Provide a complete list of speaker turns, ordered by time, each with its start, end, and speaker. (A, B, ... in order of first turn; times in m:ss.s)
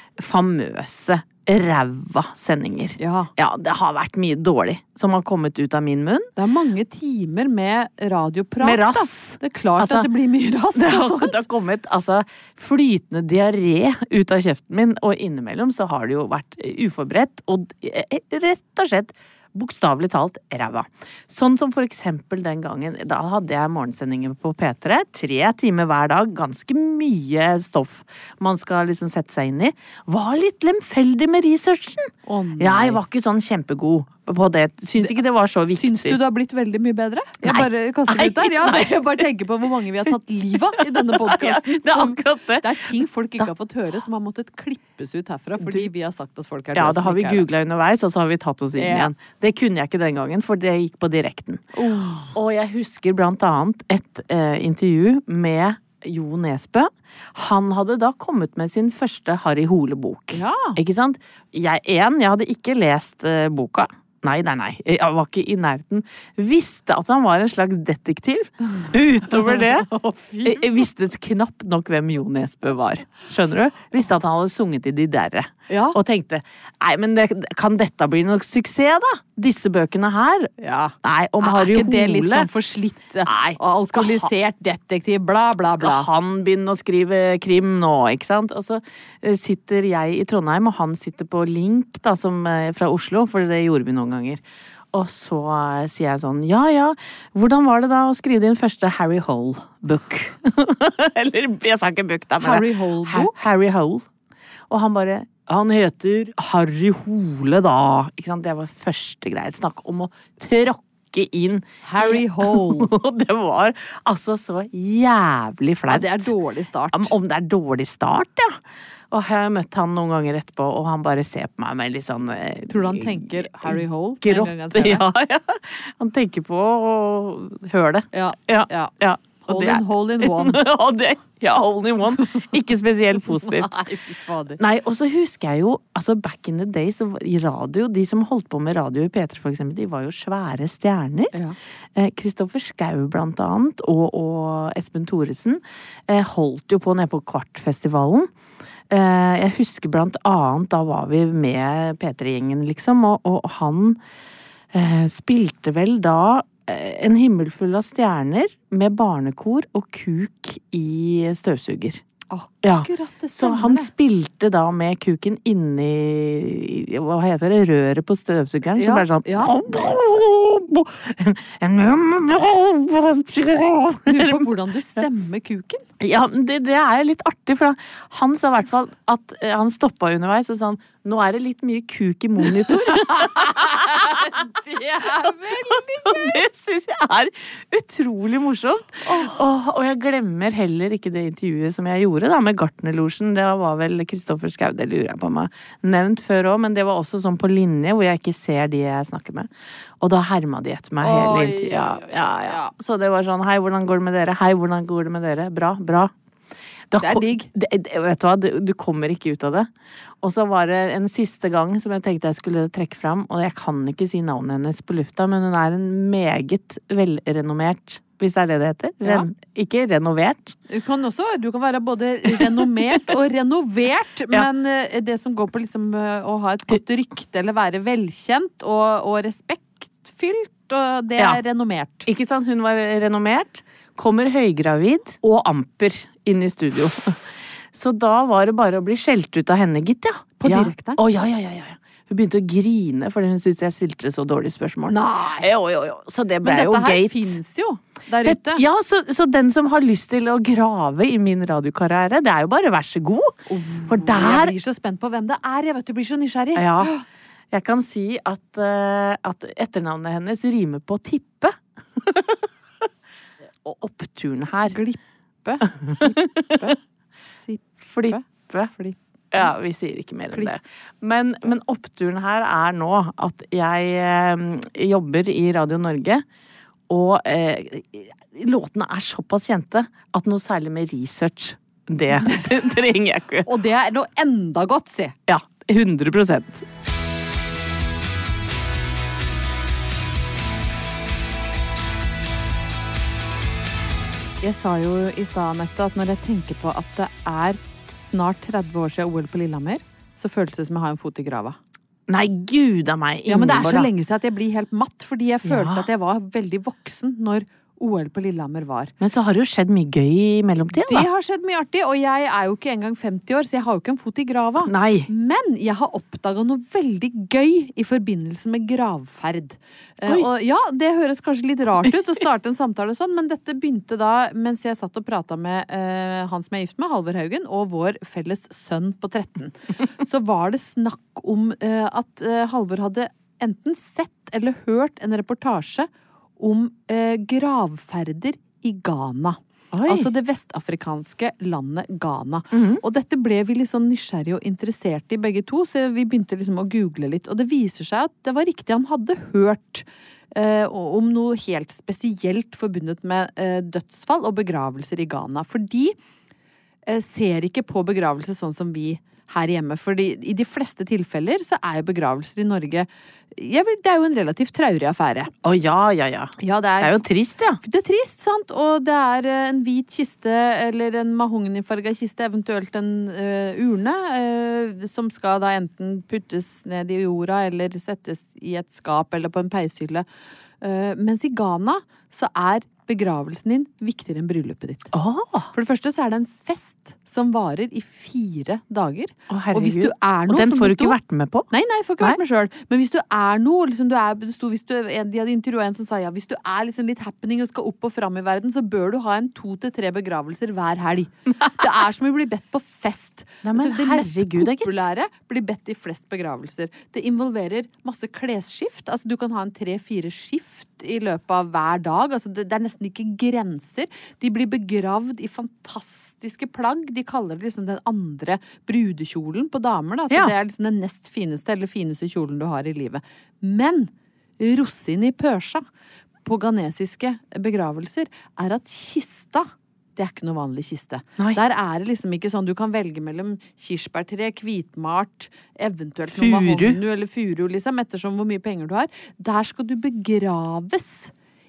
0:00.2-0:06.3 A
0:03.0-0:03.3 B
0:06.4-0:11.4 B
0:08.6-0:10.1 A
0:10.7-0:36.2 A
0:32.2-0:33.0 B
0:35.7-0:47.4 B
0:37.4-0:39.2 A
0:40.8-0:42.9 A
0:45.6-0:45.9 A
0:46.7-0:51.6 A
0:48.8-0:49.1 B
0:51.8-0:52.3 B
0:52.3-1:09.9 A
1:00.3-1:00.8 B
1:09.5-1:10.7 B
1:10.4-1:20.5 A
1:15.7-1:16.0 B
1:20.6-1:26.1 B
1:21.0-1:22.5 A
1:23.2-1:24.3 A
1:25.7-1:34.4 A
1:34.9-1:44.0 A
1:42.4-1:43.4 B
1:44.7-1:56.3 A
1:51.8-1:52.9 B
1:55.9-1:57.1 B
1:56.9-1:58.6 A
1:59.1-2:13.7 A
2:02.7-2:05.0 B
2:08.1-2:08.9 B
2:09.5-2:10.6 B
2:13.3-2:14.6 B
2:14.6-2:21.3 A
2:22.0-2:28.3 A
2:28.9-2:34.0 A
2:34.7-2:42.0 A
2:42.3-2:43.9 B
2:42.6-2:54.5 A
2:48.8-2:49.5 B
2:54.1-2:55.8 B
2:56.0-3:04.3 A
3:02.7-3:06.4 B
3:05.2-3:19.5 A
3:09.0-3:09.4 B
3:20.0-3:26.1 A
3:21.0-3:22.7 B
3:26.9-3:29.7 A
3:27.0-3:27.5 B
3:30.2-3:40.6 A
3:40.7-3:52.1 B
3:42.3-3:42.7 A
3:52.0-3:57.2 A
3:57.7-4:07.4 A
4:00.4-4:01.0 B
4:04.9-4:05.5 B
4:06.4-4:08.6 B
4:08.2-4:14.5 A
4:13.5-4:17.0 B
4:16.6-4:16.9 A
4:17.5-4:22.4 A
4:23.6-4:24.8 A
4:24.7-4:26.8 B
4:26.0-4:26.7 A
4:27.4-4:28.2 B
4:27.8-4:28.7 A
4:28.8-4:29.5 B
4:29.3-4:36.2 A
4:36.9-4:43.5 A
4:43.5-4:45.1 B
4:45.3-4:46.6 A
4:54.4-5:01.6 B
5:02.1-5:03.9 A
5:03.3-5:08.9 B
5:05.4-5:05.9 A
5:09.0-5:11.1 A
5:10.8-5:56.0 B
5:14.6-5:15.1 A
5:39.7-5:40.1 A
5:42.5-5:42.8 A
5:56.8-6:05.3 B
6:05.4-6:07.6 A
6:06.4-6:07.0 B
6:07.6-6:20.0 B
6:20.6-6:24.9 B
6:24.9-6:25.5 A
6:25.5-6:31.0 B
6:29.3-6:32.2 A
6:31.5-7:05.6 B
6:43.4-6:44.8 A
7:06.2-7:21.1 B
7:16.1-7:16.8 A